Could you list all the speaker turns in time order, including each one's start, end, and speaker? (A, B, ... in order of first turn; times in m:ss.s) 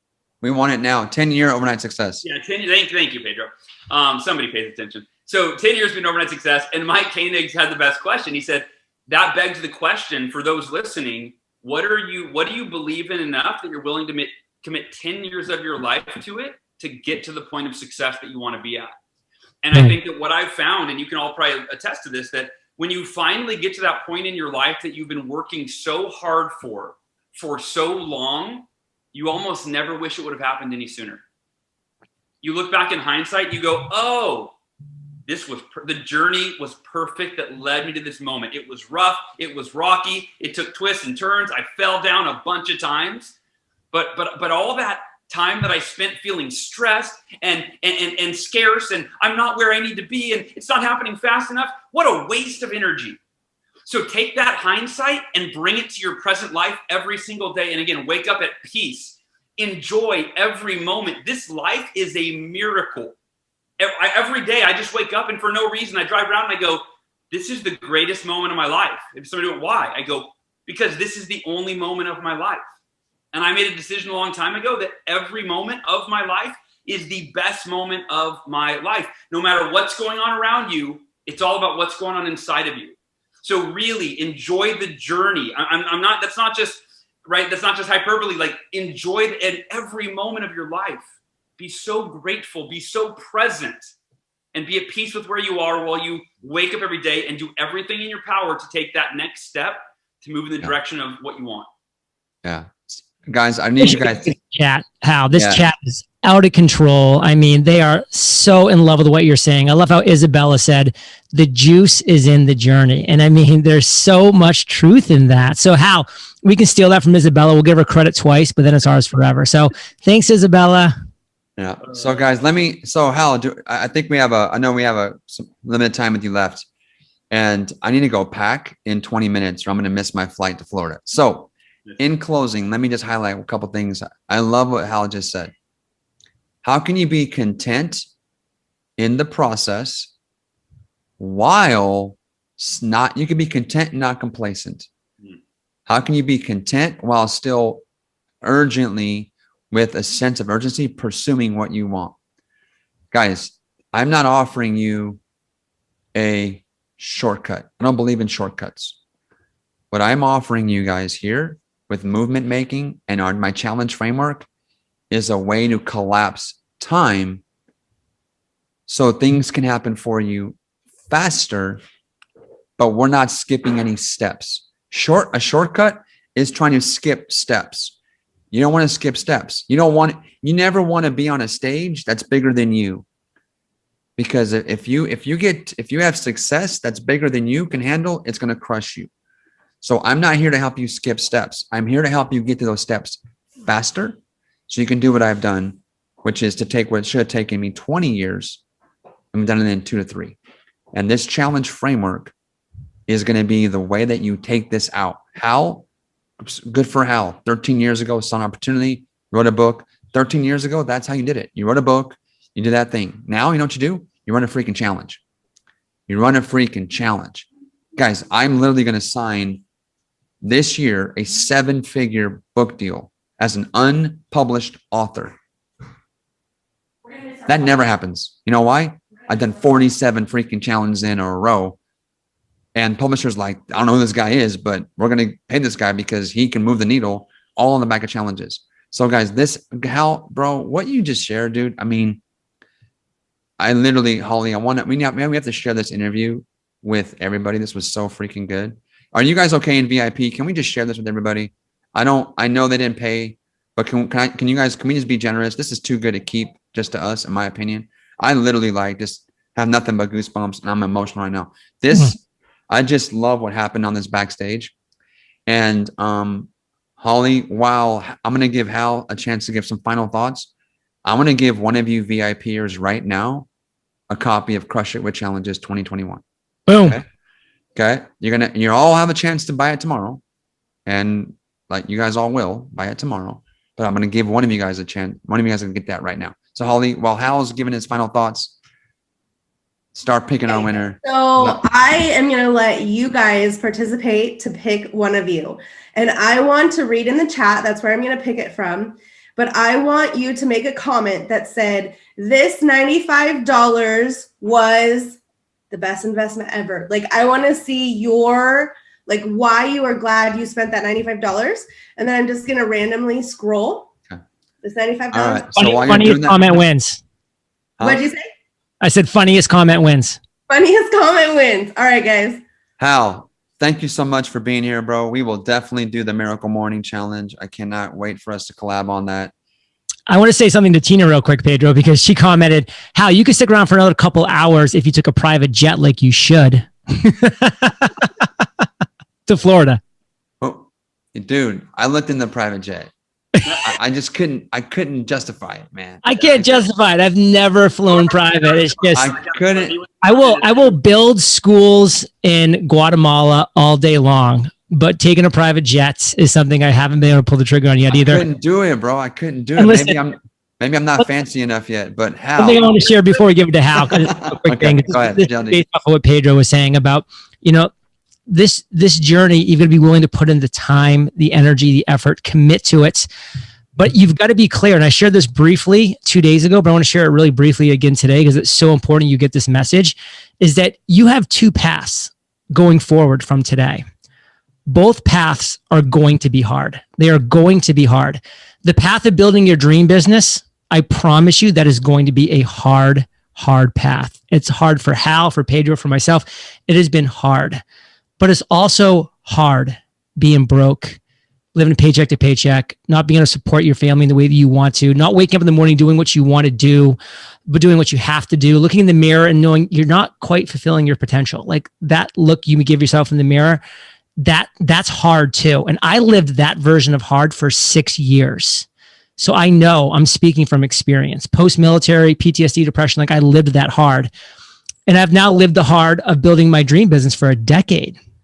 0:00.4-0:02.2 A
0:02.2-0:19.0 B
0:19.6-0:31.2 B
0:32.4-0:34.6 B
0:35.3-0:43.3 B
0:43.9-0:53.2 B
0:53.9-1:03.2 B
1:03.8-1:12.7 B
1:13.3-1:33.9 B
1:34.5-1:41.7 B
1:42.4-1:44.3 A
1:43.8-2:01.0 C
1:45.3-1:45.6 A
2:01.6-2:06.7 A
2:07.3-2:15.5 A
2:16.6-2:18.1 A
2:19.0-2:20.1 A
2:21.2-2:24.9 A
2:25.9-2:27.8 A
2:28.4-2:32.2 A
2:33.1-2:35.2 A
2:36.1-2:39.0 A
2:39.9-2:44.5 A
2:45.1-2:47.4 A
2:48.9-2:50.6 A
2:51.1-2:51.8 A
2:52.8-2:58.0 A
2:58.5-3:03.0 A
3:04.2-3:09.1 A
3:09.8-3:18.6 A
3:19.3-3:20.4 A
3:20.9-3:22.3 A
3:23.1-3:25.9 A
3:26.4-3:35.2 A
3:36.1-3:39.6 A
3:40.4-3:45.4 A
3:47.4-3:51.8 A
3:52.8-4:02.2 A
4:03.6-4:24.7 A
4:25.5-4:26.5 A
4:27.0-4:30.5 A
4:31.0-4:33.5 A
4:34.1-4:36.2 A
4:36.7-4:37.0 C
4:36.8-4:37.0 A
4:37.8-4:40.2 A
4:40.9-4:48.6 A
4:50.0-4:51.6 A
4:50.5-5:05.2 D
5:05.7-5:13.9 D
5:14.6-5:16.0 D
5:15.1-5:16.5 A
5:15.6-5:17.0 C
5:17.8-5:18.0 A
5:17.8-5:18.3 D
5:18.8-5:20.2 C
5:20.5-5:22.4 D
5:22.8-5:29.3 A
5:30.1-5:38.1 C
5:39.3-5:39.8 C
5:40.4-5:42.9 A
5:43.6-5:46.6 A
5:46.0-5:49.1 C
5:48.9-5:50.8 B
5:49.0-5:49.8 A
5:50.0-5:58.2 C
5:58.0-6:03.0 A
5:59.6-6:00.0 C
6:02.4-6:07.7 C
6:03.8-6:05.6 A
6:08.3-6:13.1 C
6:13.8-6:23.8 C
6:24.7-6:37.6 C
6:38.2-6:41.0 C
6:41.6-6:47.0 C
6:47.5-6:53.6 C
6:54.2-6:58.7 C
6:59.2-7:04.1 C
7:04.9-7:08.0 C